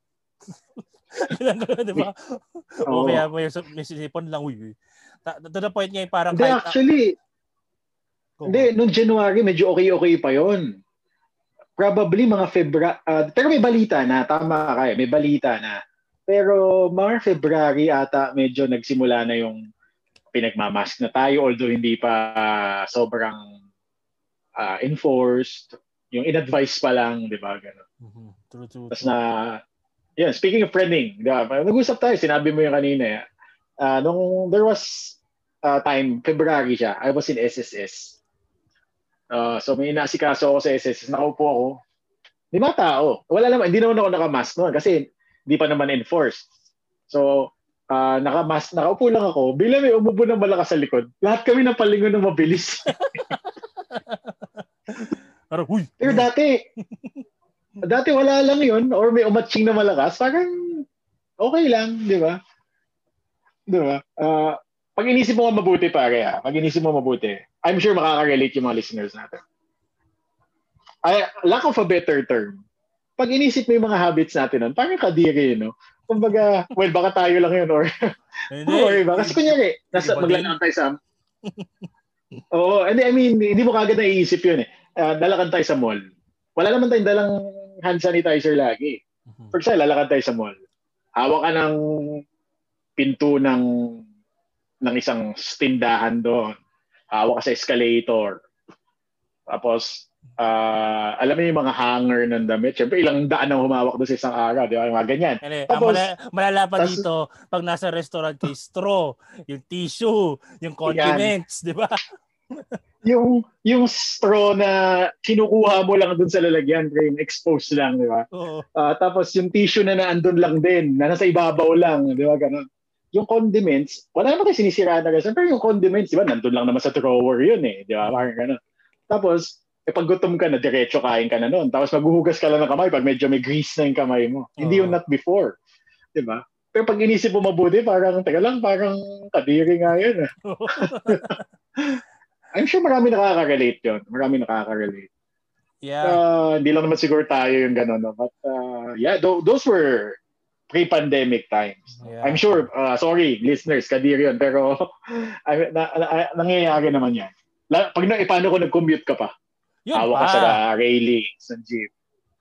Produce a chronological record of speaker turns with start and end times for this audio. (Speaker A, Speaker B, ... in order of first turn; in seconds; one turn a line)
Speaker A: 0.5-6.8
Speaker B: 2.9-3.2
Speaker B: 6.3-7.1
Speaker A: 8.4-8.7
Speaker B: 8.5-10.7
Speaker B: 11.8-15.8
Speaker B: 16.3-19.6
Speaker B: 20.3-23.5
Speaker B: 24.6-27.8
Speaker A: 28.0-29.2
Speaker B: 28.9-29.6
Speaker B: 30.2-33.2
Speaker B: 33.8-38.2
Speaker B: 39.3-41.7
Speaker B: 42.5-46.5
Speaker B: 47.1-52.9
Speaker A: 52.9-56.3
Speaker B: 56.0-56.6
Speaker A: 56.9-57.2
Speaker B: 57.8-60.8
Speaker B: 61.4-62.4
Speaker B: 63.7-69.4
Speaker B: 71.1-72.6
Speaker B: 73.2-77.9
Speaker A: 78.5-80.5
Speaker B: 78.7-80.9
Speaker A: 81.5-81.9
Speaker B: 82.5-86.0
Speaker B: 86.6-87.3
Speaker B: 87.8-89.0
Speaker A: 89.3-89.6
Speaker B: 89.5-90.5
Speaker B: 91.2-91.8
Speaker B: 93.0-93.6
Speaker B: 94.8-96.6
Speaker B: 97.1-98.4
Speaker B: 99.5-106.0
Speaker A: 105.4-112.0
Speaker B: 106.8-107.0
Speaker B: 110.9-111.3
Speaker B: 113.0-128.6
Speaker A: 118.3-118.7
Speaker A: 128.0-128.3
Speaker B: 129.1-135.5
Speaker A: 134.6-135.0
Speaker B: 136.2-142.0
Speaker A: 140.4-141.4
Speaker B: 142.6-145.1
Speaker A: 145.8-146.2
Speaker B: 146.1-150.2
Speaker B: 150.7-159.3
Speaker A: 152.0-152.7
Speaker A: 159.9-160.6
Speaker B: 159.9-161.9